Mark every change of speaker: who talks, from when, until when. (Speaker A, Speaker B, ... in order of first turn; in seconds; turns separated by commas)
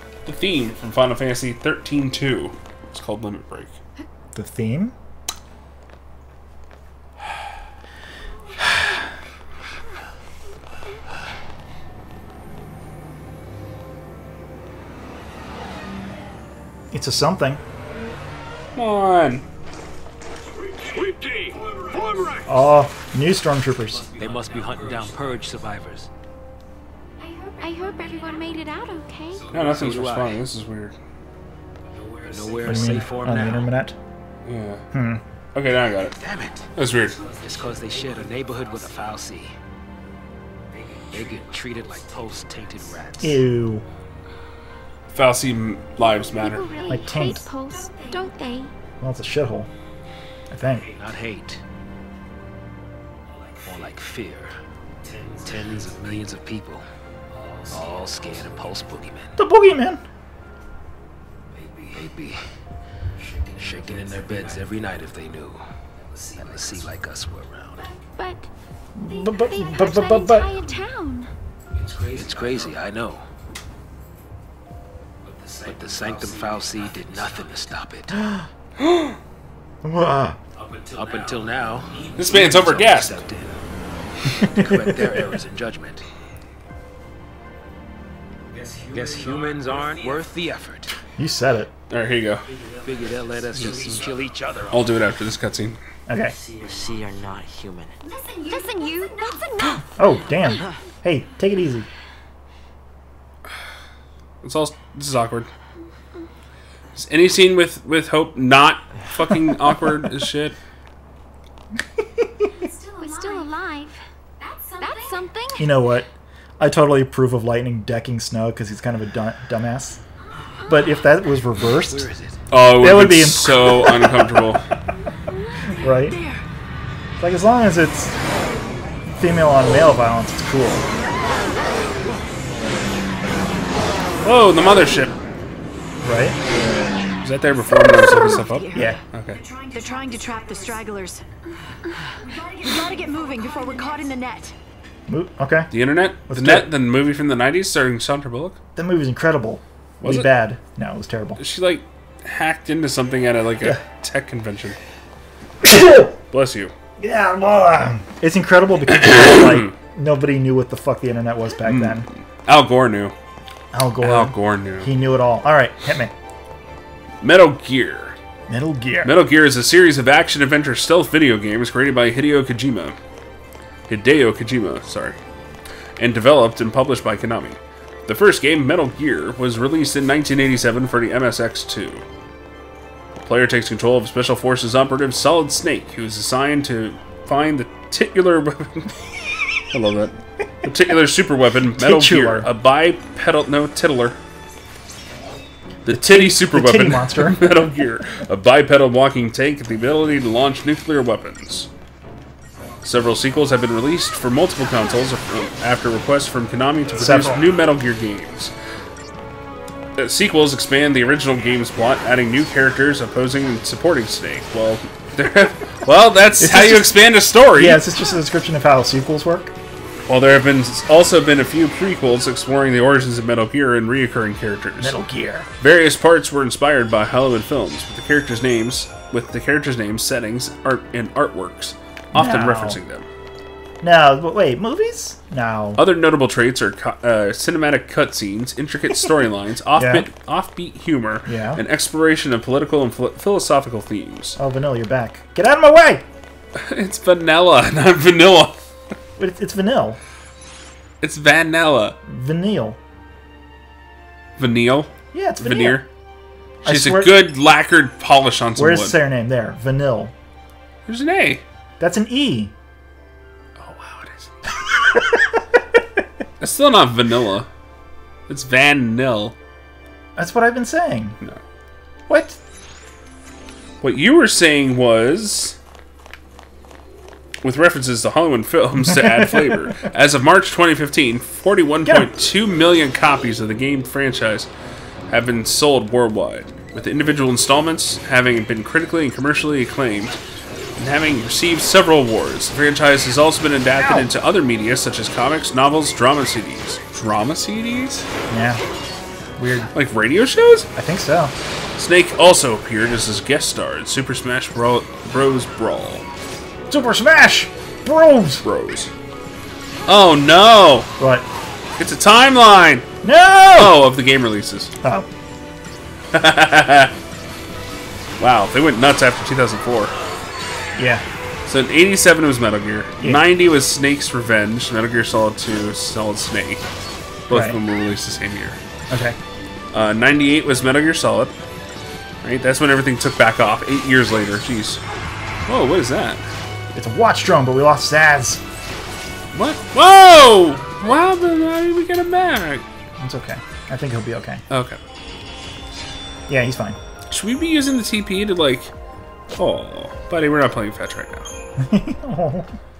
Speaker A: 0.2-3.8, Speaker B: 4.3-4.9, Speaker B: 16.9-17.6, Speaker A: 18.8-19.4, Speaker C: 20.7-22.7, Speaker B: 22.5-24.1, Speaker C: 23.9-25.8, Speaker D: 24.2-26.1, Speaker E: 27.2-29.5, Speaker C: 29.3-30.1, Speaker A: 29.5-30.9, Speaker D: 29.6-30.4, Speaker C: 31.8-33.7, Speaker D: 32.3-33.7, Speaker B: 32.6-34.0, Speaker A: 34.5-34.8, Speaker B: 34.9-35.2, Speaker A: 35.5-36.1, Speaker D: 36.0-36.7, Speaker A: 36.8-37.2, Speaker C: 37.0-39.2, Speaker D: 37.2-39.6, Speaker C: 40.7-43.1, Speaker D: 41.1-43.4, Speaker B: 43.2-43.8, Speaker A: 45.1-46.7, Speaker E: 46.3-48.7, Speaker B: 46.9-47.5, Speaker B: 49.0-49.7, Speaker B: 50.5-50.9, Speaker C: 50.7-51.1, Speaker D: 51.0-51.6, Speaker C: 53.3-53.8, Speaker D: 53.6-54.5, Speaker C: 55.0-56.5, Speaker D: 55.4-56.9, Speaker C: 57.3-59.1, Speaker D: 57.7-59.4, Speaker B: 59.4-60.0, Speaker C: 61.5-62.3, Speaker D: 61.9-62.4, Speaker C: 63.2-65.1, Speaker D: 63.6-65.6, Speaker C: 66.0-67.1, Speaker D: 66.4-67.9, Speaker E: 67.8-68.5, Speaker B: 69.0-70.5, Speaker E: 69.1-71.3, Speaker C: 71.7-72.8, Speaker D: 72.1-73.3, Speaker C: 75.2-77.8, Speaker D: 75.7-78.2, Speaker B: 78.1-78.5, Speaker A: 78.8-79.1, Speaker B: 79.8-80.4, Speaker C: 80.5-82.8, Speaker D: 81.0-83.6, Speaker A: 82.2-83.2, Speaker D: 84.4-86.0, Speaker B: 84.5-85.2, Speaker C: 88.5-90.3, Speaker D: 88.9-91.0, Speaker B: 91.2-91.7, Speaker A: 91.9-92.5, Speaker C: 92.4-95.0, Speaker D: 92.8-94.8, Speaker A: 94.7-95.8, Speaker B: 96.1-96.3, Speaker C: 96.3-98.0, Speaker E: 98.0-99.9, Speaker B: 100.0-101.9, Speaker A: 104.4-105.5, Speaker A: 107.0-110.6, Speaker E: 112.6-115.7, Speaker F: 113.1-113.5, Speaker F: 114.9-115.2, Speaker B: 115.6-116.1, Speaker B: 116.6-120.0, Speaker B: 120.7-124.3, Speaker D: 121.7-122.5, Speaker A: 122.5-124.6, Speaker E: 125.3-126.3, Speaker B: 125.8-126.2, Speaker F: 126.1-126.4, Speaker B: 127.2-128.1, Speaker B: 129.2-130.9, Speaker A: 134.2-135.1, Speaker B: 136.0-136.4, Speaker A: 137.2-139.4, Speaker F: 137.6-141.2, Speaker B: 138.7-139.0, Speaker E: 139.5-140.8, Speaker F: 142.3-144.5, Speaker E: 142.4-144.1, Speaker B: 145.1-145.7, Speaker A: 145.7-148.6, Speaker B: 146.3-146.7, Speaker B: 148.8-151.4, Speaker A: 150.0-150.4, Speaker A: 151.4-154.8, Speaker B: 155.6-156.1, Speaker A: 156.3-156.7, Speaker B: 157.0-162.1, Speaker A: 161.7-163.2, Speaker B: 163.7-166.1, Speaker A: 164.0-164.9, Speaker A: 167.2-168.2, Speaker B: 168.5-169.1, Speaker A: 169.0-173.0, Speaker A: 173.9-175.2, Speaker A: 176.0-182.0, Speaker A: 183.2-188.9, Speaker A: 189.7-194.2, Speaker B: 191.8-192.5, Speaker A: 195.9-201.7, Speaker B: 195.9-197.6, Speaker A: 202.8-208.5, Speaker B: 207.0-207.4, Speaker A: 210.0-217.8, Speaker B: 216.4-219.5, Speaker A: 220.1-225.0, Speaker B: 224.8-225.5, Speaker A: 225.6-233.1, Speaker B: 232.1-232.8, Speaker B: 233.8-235.8, Speaker A: 235.8-244.4, Speaker B: 239.8-240.1, Speaker B: 241.3-241.6, Speaker B: 244.4-246.0, Speaker A: 246.6-248.6, Speaker B: 249.2-250.0, Speaker A: 251.0-252.0, Speaker B: 252.1-252.8, Speaker A: 254.4-255.9, Speaker B: 255.1-255.8, Speaker B: 256.6-257.2, Speaker A: 256.6-259.0, Speaker B: 258.6-260.1, Speaker A: 260.9-261.4, Speaker B: 261.8-262.5, Speaker A: 263.6-264.3, Speaker A: 266.4-267.5, Speaker A: 268.3-269.3, Speaker B: 270.2-271.2, Speaker B: 272.1-272.4, Speaker A: 273.8-275.6, Speaker A: 277.4-284.5, Speaker A: 285.1-290.2, Speaker A: 290.8-298.1, Speaker B: 293.8-294.1, Speaker B: 298.3-298.6, Speaker B: 299.4-299.7, Speaker A: 299.7-300.7, Speaker B: 300.8-301.3, Speaker A: 301.8-306.0, Speaker B: 306.7-308.4, Speaker A: 308.4-308.9, Speaker A: 309.9-310.9, Speaker B: 311.0-311.3, Speaker A: 311.8-312.9, Speaker B: 313.0-313.8, Speaker A: 313.6-314.7, Speaker B: 314.8-315.1, Speaker A: 316.1-316.9, Speaker A: 318.2-319.9, Speaker B: 320.8-321.0, Speaker A: 321.5-326.6, Speaker A: 327.3-328.6, Speaker B: 327.3-327.6, Speaker B: 328.9-329.2, Speaker A: 329.7-331.3, Speaker A: 332.2-334.8, Speaker A: 335.5-336.2, Speaker B: 336.7-338.4, Speaker A: 339.3-342.6, Speaker B: 343.0-344.4, Speaker A: 344.5-344.8, Speaker B: 346.3-346.8, Speaker A: 347.1-348.7, Speaker A: 349.4-351.3, Speaker B: 351.6-352.5